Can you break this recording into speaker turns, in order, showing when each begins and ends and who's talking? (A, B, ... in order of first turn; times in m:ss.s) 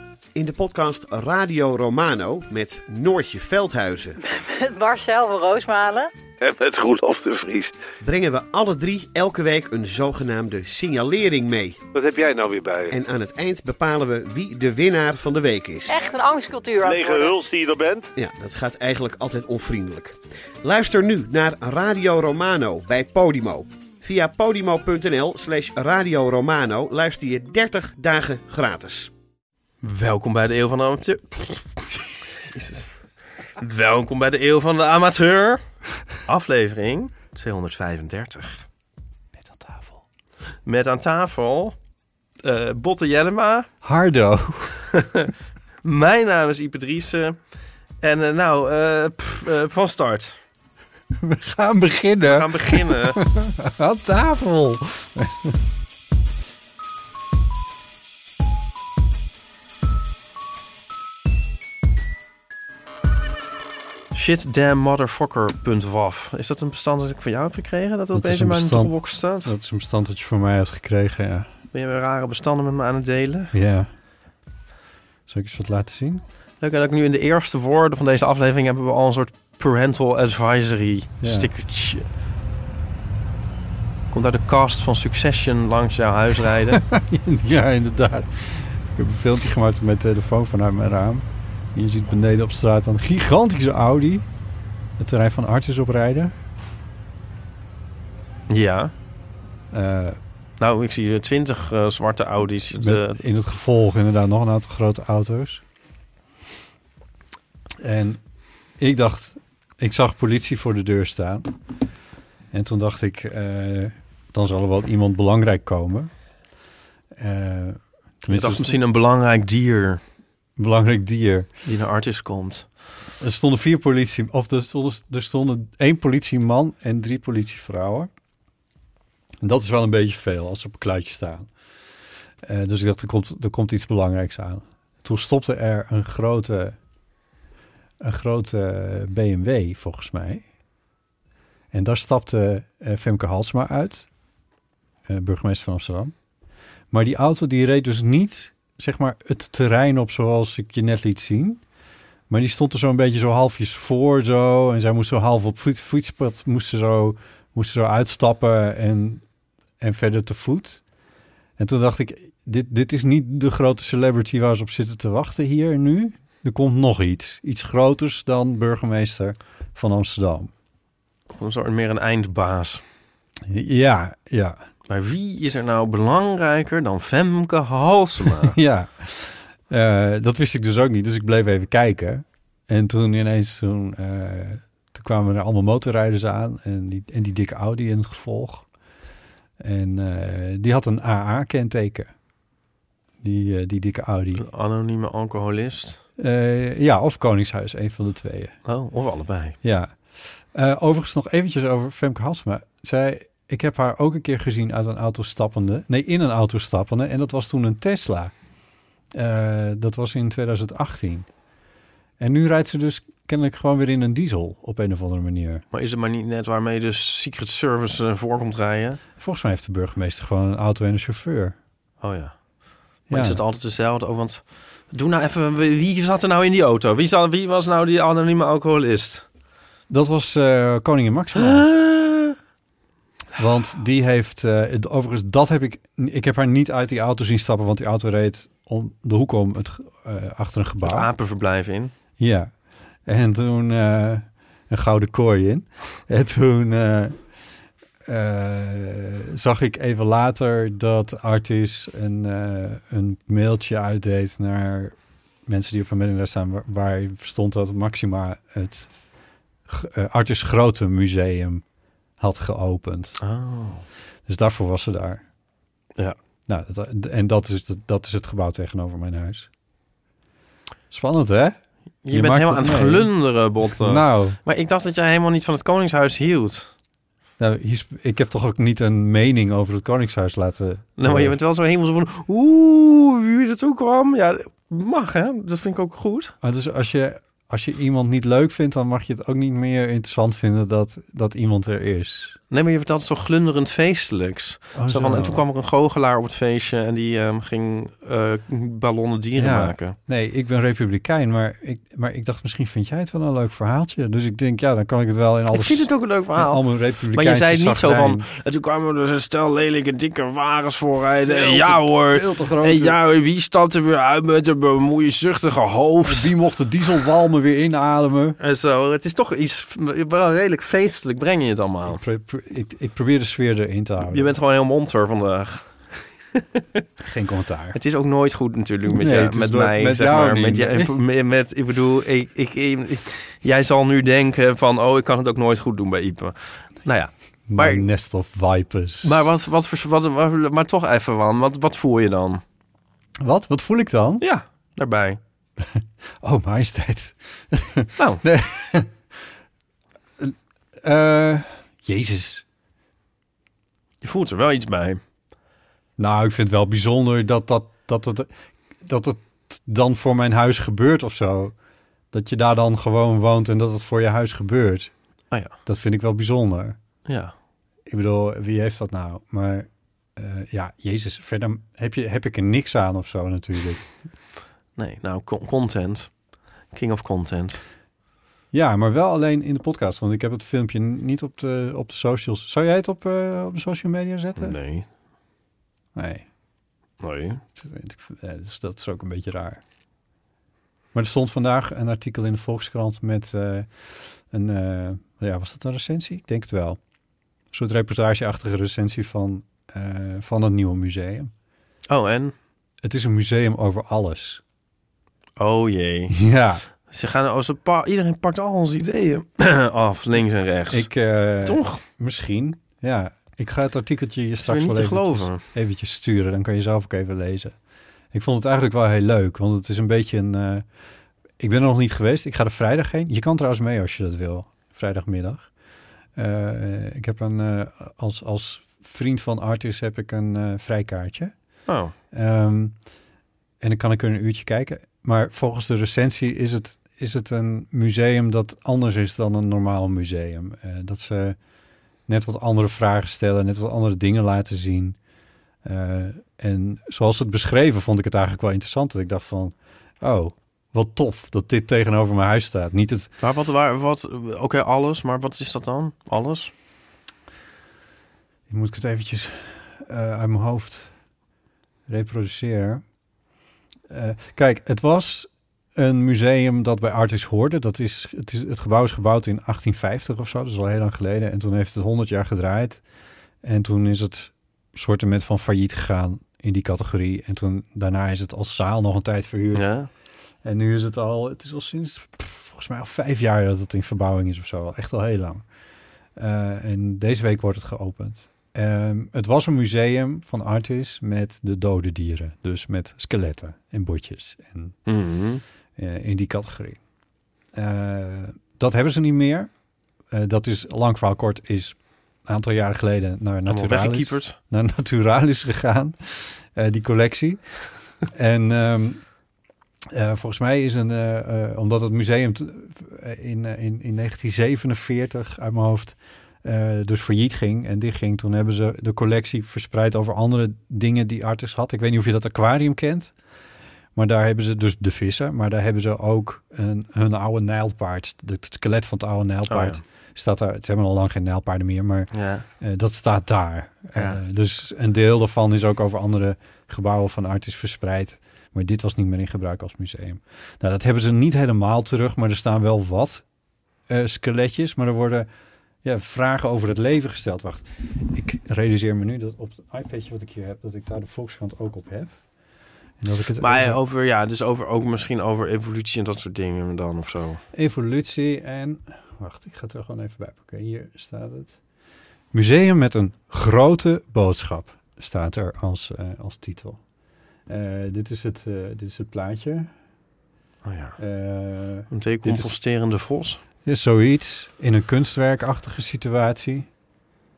0:00.4-0:04.2 A
0:04.2-0:06.1 B
0:06.4-0:07.7 C
0:08.0-0:11.8 A
0:11.9-0:12.9 C
0:12.9-0:16.0 A
0:15.9-0:17.4 B
0:16.8-0:18.1 C
0:18.2-0:29.1 A
0:29.8-0:32.9 D
0:33.6-0:35.6 D
0:36.2-0:38.6 D
0:39.4-0:40.0 E
0:40.7-0:41.8 D
0:42.4-0:43.7 D
0:43.8-0:44.8 E
0:44.9-0:45.3 D
0:45.8-0:47.4 D
0:48.0-0:50.4 D
0:51.2-0:55.6 E
0:52.2-0:53.2 D
1:04.1-1:09.5 D
1:08.1-1:11.5 E
1:11.7-1:13.6 D
1:13.5-1:13.9 E
1:15.3-1:16.2 E
1:16.6-1:22.0 D
1:21.2-1:21.5 E
1:24.1-1:26.8 D
1:26.7-1:34.3 E
1:35.0-1:36.4 E
1:38.5-1:38.9 D
1:39.7-1:40.2 E
1:40.6-1:43.2 D
1:42.8-1:45.6 E
1:47.8-1:48.2 E
1:48.8-1:51.6 E
1:52.5-1:56.1 E
1:57.2-1:58.8 E
1:58.3-2:00.0 D
2:00.6-2:01.5 E
2:01.6-2:02.7 D
2:03.2-2:08.1 E
2:09.4-2:11.5 E
2:12.4-2:16.8 E
2:18.0-2:20.4 E
2:21.7-2:24.1 E
2:25.1-2:26.1 E
2:26.9-2:31.6 E
2:32.3-2:39.2 E
2:39.8-2:40.8 E
2:41.6-2:50.5 E
2:51.3-2:52.8 D
2:53.5-2:54.6 E
2:54.9-2:58.6 D
2:58.4-3:08.7 E
3:09.6-3:12.1 E
3:13.2-3:14.4 E
3:14.4-3:16.0 D
3:16.2-3:18.6 E
3:18.7-3:19.6 D
3:19.6-3:28.3 E
3:29.1-3:31.3 E
3:32.2-3:35.6 E
3:35.7-3:39.0 D
3:39.2-3:41.6 E
3:42.0-3:42.4 D
3:43.1-3:49.3 D
3:43.1-3:43.4 E
3:49.9-3:51.7 E
3:51.4-3:52.4 D
3:53.4-4:01.1 E
4:00.8-4:01.9 D
4:02.2-4:02.5 E
4:03.1-4:07.2 E
4:08.1-4:18.9 E
4:19.7-4:21.6 E
4:22.2-4:23.2 E
4:23.2-4:23.8 D
4:24.3-4:25.2 E
4:26.5-4:29.5 E
4:30.9-4:33.1 E
4:32.0-4:36.7 D
4:33.6-4:34.4 E
4:37.4-4:41.4 E
4:41.0-4:46.3 D
4:46.4-4:52.4 E
4:52.5-5:00.0 D
4:54.8-4:55.4 E
4:59.4-5:08.2 E
5:05.5-5:16.3 D
5:11.0-5:13.0 E
5:16.0-5:18.4 E
5:18.4-5:22.0 D
5:21.9-5:24.3 E
5:24.0-5:26.8 D
5:27.0-5:27.8 E
5:27.7-5:37.9 D
5:28.9-5:30.9 E
5:37.5-5:39.2 E
5:39.0-5:42.4 D
5:43.2-5:44.2 E
5:44.2-5:45.2 D
5:45.6-5:49.0 E
5:48.0-5:48.2 D
5:50.2-5:52.4 E
5:54.0-5:55.0 D
5:56.0-6:01.5 E
6:02.1-6:04.9 E
6:05.7-6:06.8 E
6:07.1-6:07.3 D
6:07.9-6:13.8 E
6:14.8-6:16.1 D
6:16.7-6:17.6 D
6:18.5-6:24.6 E
6:24.4-6:24.9 D
6:26.0-6:26.3 E
6:27.0-6:27.4 D
6:27.6-6:29.6 E
6:30.9-6:36.8 E
6:37.5-6:41.3 E
6:41.9-6:42.3 D
6:42.8-6:44.4 E
6:45.4-6:46.2 D
6:46.1-6:46.6 E
6:46.9-6:50.9 D
6:50.7-6:57.6 E
6:51.4-6:51.8 D
6:54.4-6:55.4 D
6:58.1-7:00.6 E
7:01.4-7:05.5 E
7:06.2-7:11.3 E
7:11.7-7:11.9 D
7:12.1-7:12.8 E
7:13.6-7:21.4 E
7:22.1-7:25.0 E
7:25.6-7:33.1 E
7:33.2-7:36.5 D
7:38.5-7:40.9 E
7:41.9-7:42.8 E
7:43.9-7:52.8 E
7:53.4-7:59.7 E
7:59.5-7:59.9 D
8:00.4-8:05.4 E
8:06.2-8:14.8 E
8:14.9-8:15.4 D
8:15.8-8:16.8 E
8:17.5-8:19.5 E
8:20.1-8:29.0 E
8:23.5-8:24.4 D
8:29.9-8:43.2 E
8:44.0-9:03.2 E
8:49.5-8:49.8 D
8:52.1-8:52.4 D
8:54.0-8:54.2 D
9:03.9-9:05.3 E
9:05.8-9:12.2 E
9:13.0-9:13.8 E
9:13.4-9:17.4 D
9:17.5-9:21.6 E
9:22.3-9:26.8 E
9:27.5-9:29.7 E
9:30.6-9:31.0 D
9:31.0-9:32.5 E
9:31.9-9:33.4 D
9:33.6-9:36.7 E